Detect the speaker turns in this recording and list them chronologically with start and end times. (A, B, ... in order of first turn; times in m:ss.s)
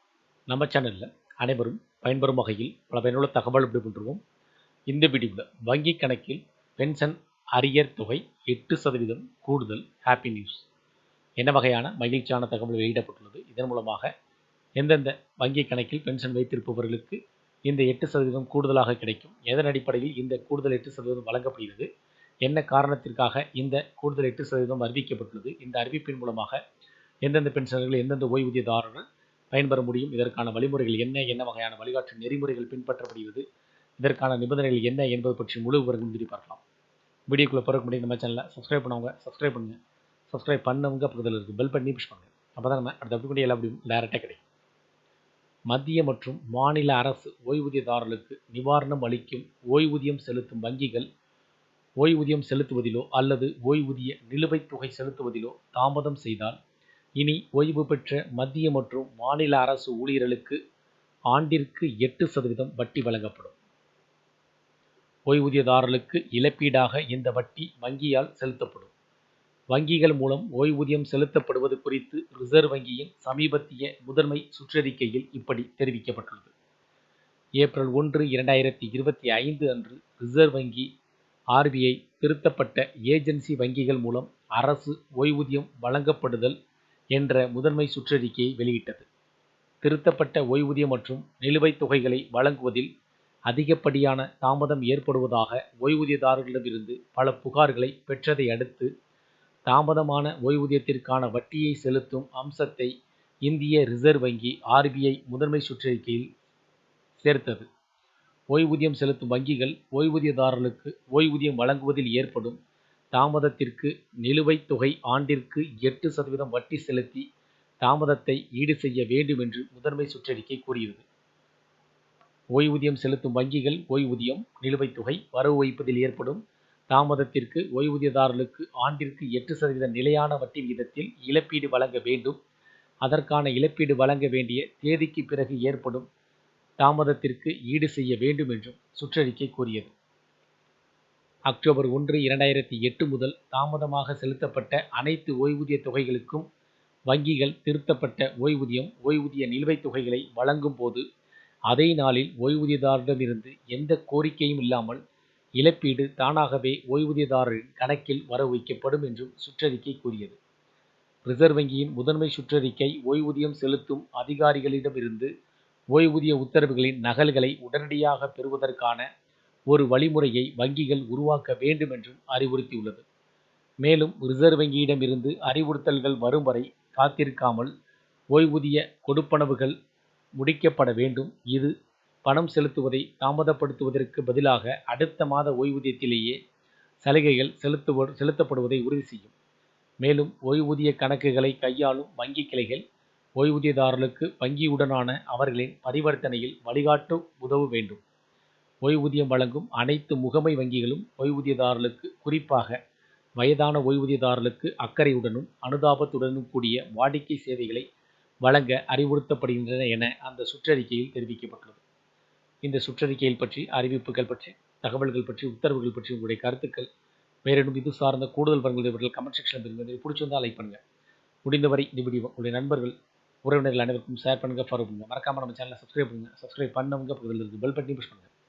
0:00.5-0:04.2 A
0:04.9-0:10.6 A
0:11.4-0:14.1 A
0:14.8-0:21.9 A
0:22.4-0:26.6 A
0:27.2-0:33.4 A
0:34.0-0:36.6 A
0:37.3-0:39.8 A
0:40.3-0:44.4 A
0:45.7-0:51.0 A
0:52.0-0:56.6 A
0:57.2-1:00.6 A
1:01.3-1:03.5 A
1:05.3-1:08.9 A
1:09.7-1:16.5 A
1:17.6-1:20.9 A
1:21.5-1:26.6 A
1:27.1-1:29.0 A
1:29.8-1:32.9 A
1:33.5-1:38.9 A
1:39.7-1:42.9 A
1:43.4-1:46.3 A
1:47.2-1:47.6 A
1:48.5-1:52.6 A
1:53.1-1:57.2 A
1:57.8-2:01.0 A
2:02.5-2:06.4 A
2:06.9-2:12.4 A
2:13.0-2:16.0 A
2:16.8-2:19.9 A
2:21.5-2:26.4 A
2:27.1-2:31.0 A
2:31.7-2:35.0 A
2:35.6-2:40.4 A
2:41.2-2:45.3 A
2:45.9-2:49.0 A
2:49.7-2:53.0 A
2:53.8-2:57.7 A
2:58.3-2:59.7 A
3:00.4-3:01.7 A
3:02.2-3:06.3 A
3:07.0-3:09.3 A
3:10.0-3:12.8 A
3:13.4-3:18.0 A
3:18.8-3:22.7 A
3:23.4-3:27.8 A
3:28.4-3:31.8 A
3:32.6-3:36.9 A
3:37.4-3:40.8 A
3:41.4-3:42.9 A
3:43.4-3:48.3 A